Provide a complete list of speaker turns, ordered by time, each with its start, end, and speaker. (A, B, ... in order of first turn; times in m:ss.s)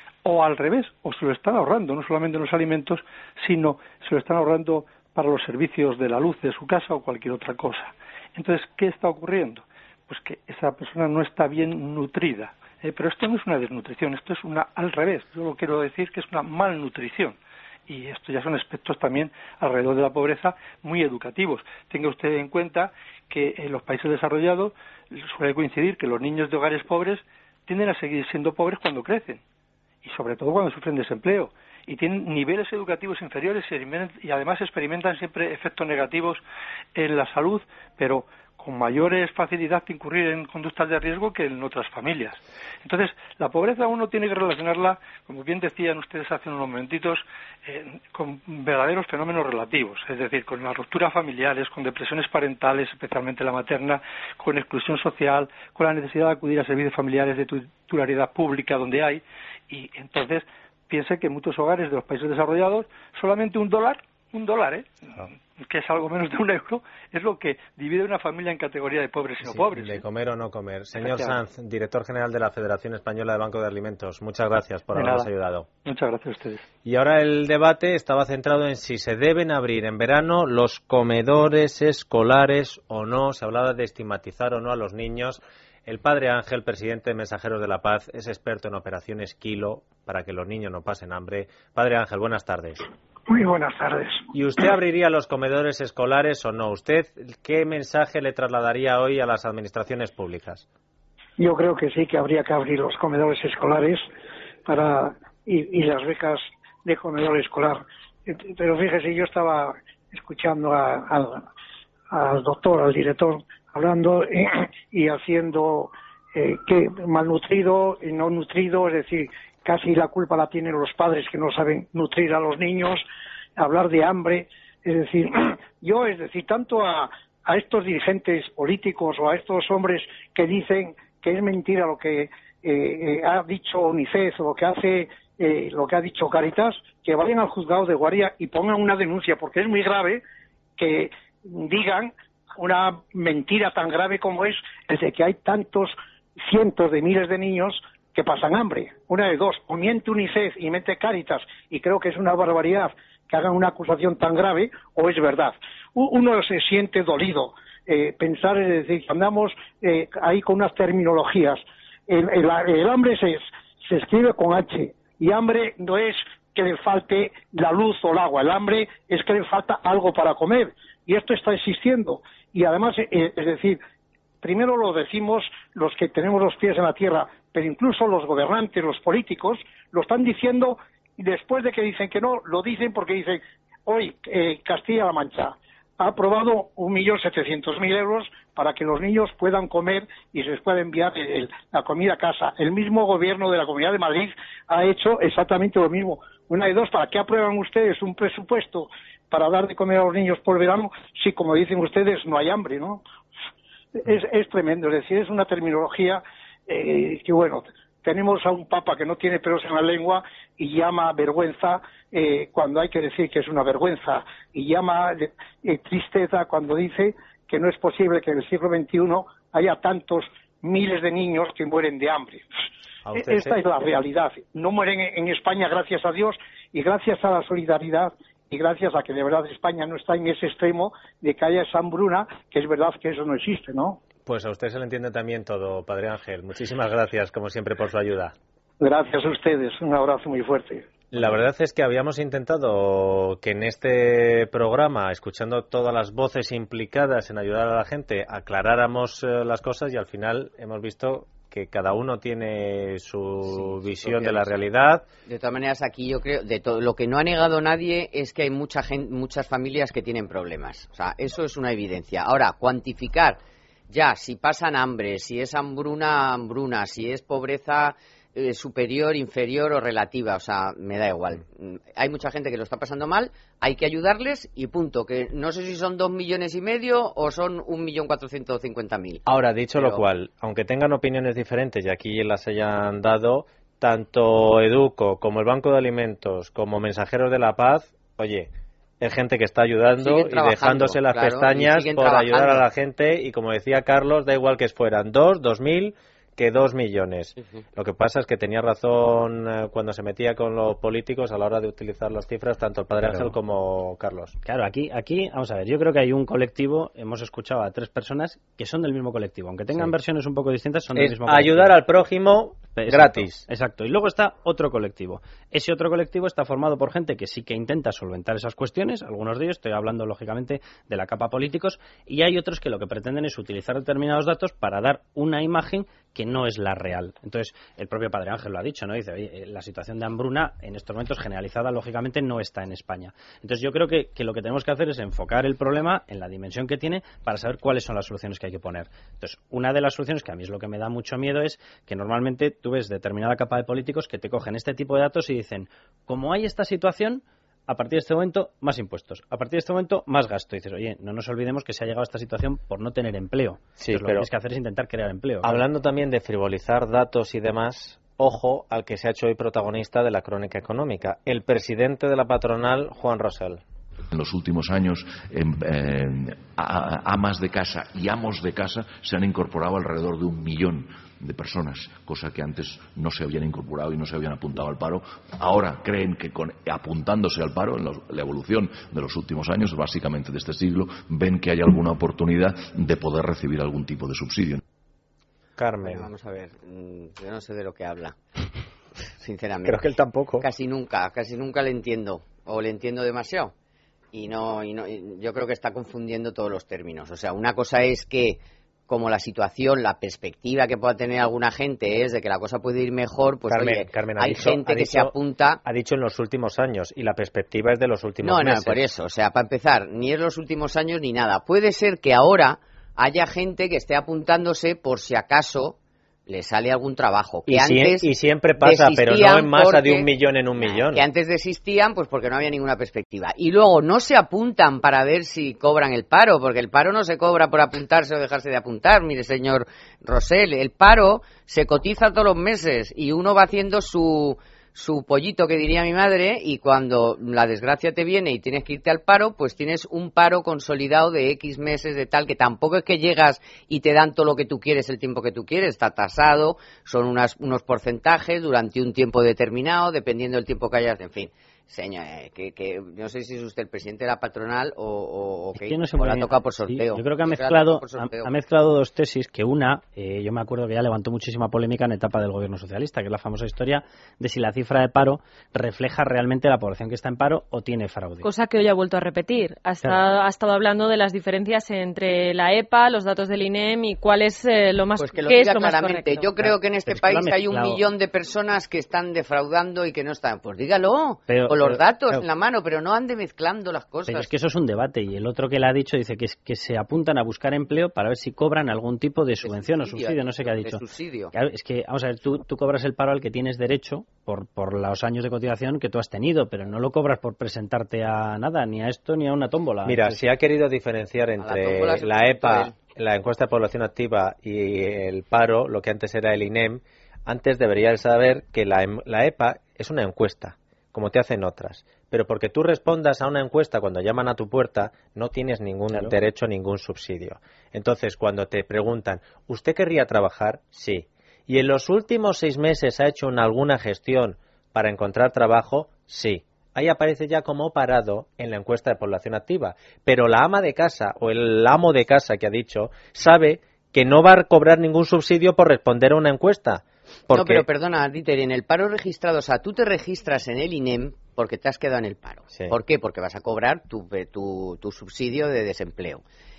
0:00.2-0:17.4 A
0:17.9-0:29.4 A
0:30.0-0:36.4 A
0:37.0-1:10.0 A
1:09.4-1:15.7 B
1:11.0-1:11.4 A
1:14.9-1:15.3 A
1:15.8-1:16.6 A
1:16.8-1:32.8 B
1:33.3-1:34.2 C
1:34.3-1:40.6 B
1:41.4-1:44.0 C
1:44.6-1:51.5 C
1:52.1-2:03.0 C
2:03.6-2:20.2 C
2:20.8-2:53.8 C
2:54.4-3:23.0 C
3:24.0-3:42.4 C
3:43.0-3:43.6 B
3:43.2-3:54.0 C
3:54.3-3:58.3 B
3:58.8-4:00.8 C
4:01.1-4:15.0 B
4:13.5-4:14.6 D
4:15.3-4:40.0 D
4:39.3-4:48.5 B
4:49.0-5:04.4 B
4:50.0-4:52.6 D
5:03.0-5:03.3 E
5:04.4-5:11.8 E
5:11.0-5:13.4 B
5:12.8-5:55.6 E
5:53.8-5:54.3 B
5:55.4-6:03.6 B
6:04.1-6:24.6 F
6:25.6-6:26.1 B
6:25.8-6:28.2 D
6:29.2-6:29.9 D
6:29.6-6:30.4 B
6:30.4-6:33.5 D
6:34.1-6:45.6 D
6:43.5-6:45.1 B
6:45.6-6:48.8 B
6:48.2-6:55.8 D
6:56.3-6:58.1 D
6:57.5-7:01.0 B
6:58.6-7:38.3 D
7:35.6-7:48.3 E
7:48.2-7:56.3 G
7:55.0-8:04.3 D
7:56.4-7:57.8 E
8:01.3-8:02.2 E
8:04.1-8:10.8 E
8:09.4-8:11.3 D
8:11.3-8:20.2 E
8:19.9-8:57.6 B
8:21.4-8:22.8 D
8:57.3-9:06.2 D